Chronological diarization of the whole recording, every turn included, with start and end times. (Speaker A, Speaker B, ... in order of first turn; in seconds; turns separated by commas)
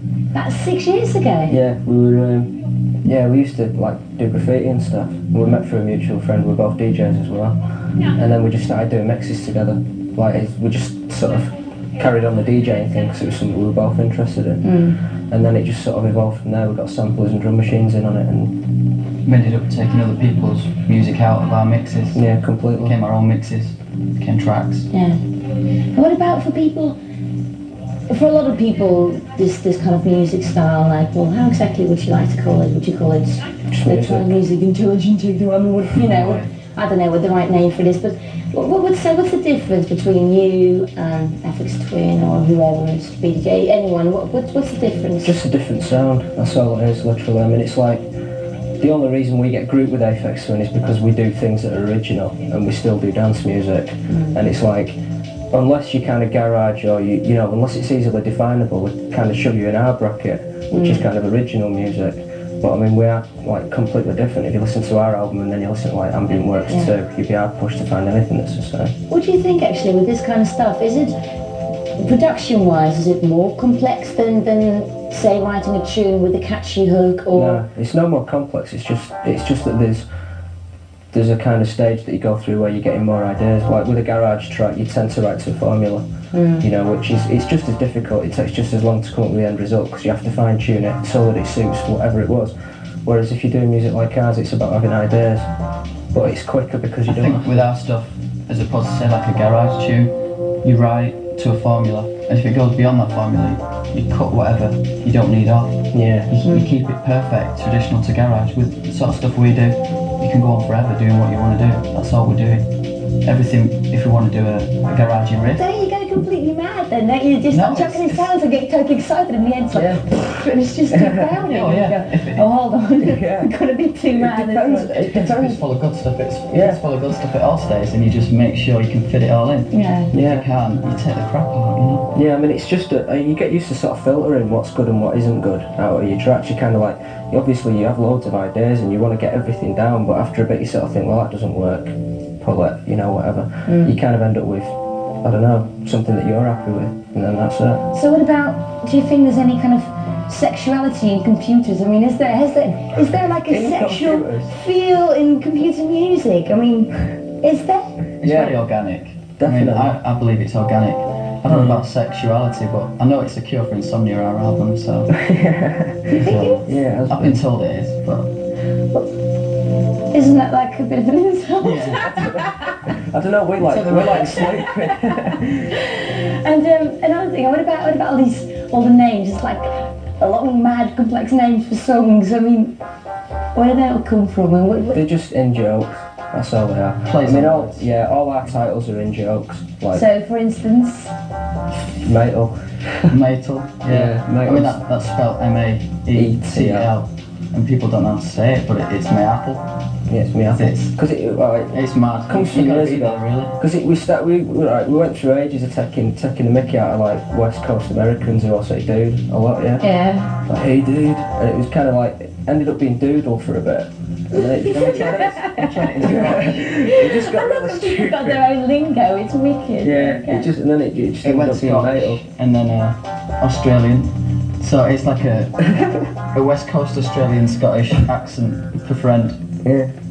Speaker A: 0.3-1.6, Speaker B: 1.5-14.7, Speaker A: 14.6-15.0, Speaker B: 15.3-18.6, Speaker C: 19.2-22.2, Speaker B: 22.1-22.9, Speaker C: 22.8-24.9, Speaker A: 24.9-25.2, Speaker A: 25.9-27.0, Speaker A: 28.1-45.4, Speaker B: 33.7-34.3, Speaker C: 36.0-36.5, Speaker B: 45.2-48.1, Speaker B: 48.8-55.0, Speaker A: 54.1-54.4, Speaker B: 55.5-68.9, Speaker A: 60.7-61.0, Speaker A: 66.7-66.9, Speaker A: 69.1-71.1, Speaker A: 72.0-77.6, Speaker B: 77.3-80.0, Speaker B: 81.1-86.0, Speaker A: 86.3-86.6, Speaker B: 86.6-92.5, Speaker B: 93.0-95.5, Speaker B: 96.1-97.7, Speaker C: 97.1-100.1, Speaker C: 100.6-112.7, Speaker B: 105.9-106.3, Speaker C: 113.2-115.6, Speaker A: 115.5-125.0, Speaker C: 117.5-118.3, Speaker B: 119.7-120.2, Speaker B: 120.9-121.3, Speaker C: 121.4-122.5, Speaker B: 123.0-123.5, Speaker B: 124.1-125.6, Speaker C: 124.8-132.1, Speaker B: 126.5-126.8, Speaker A: 129.7-130.1, Speaker B: 130.1-130.5, Speaker B: 132.1-147.8, Speaker A: 143.7-143.9, Speaker A: 147.9-157.9, Speaker B: 153.4-154.6, Speaker C: 158.2-165.1, Speaker B: 158.2-158.5, Speaker B: 159.4-159.9, Speaker B: 161.5-161.8, Speaker B: 165.1-167.4, Speaker A: 166.1-166.7, Speaker C: 166.2-168.3, Speaker A: 170.1-172.4, Speaker C: 171.6-172.5, Speaker B: 172.2-175.7, Speaker C: 173.6-174.7, Speaker A: 175.7-182.7, Speaker A: 183.5-185.0, Speaker B: 184.9-190.0, Speaker C: 187.0-187.9, Speaker A: 189.9-191.1, Speaker B: 192.0-193.2, Speaker C: 193.1-199.7, Speaker B: 193.9-194.8, Speaker B: 196.1-196.9, Speaker B: 200.1-209.8, Speaker C: 200.5-200.9, Speaker C: 201.7-203.6, Speaker A: 209.8-210.3, Speaker B: 210.4-218.4, Speaker A: 214.3-215.6, Speaker C: 214.8-216.7, Speaker A: 216.6-220.5, Speaker B: 219.8-222.2, Speaker C: 221.2-225.6, Speaker B: 225.7-226.0, Speaker C: 226.3-229.4, Speaker B: 229.6-229.9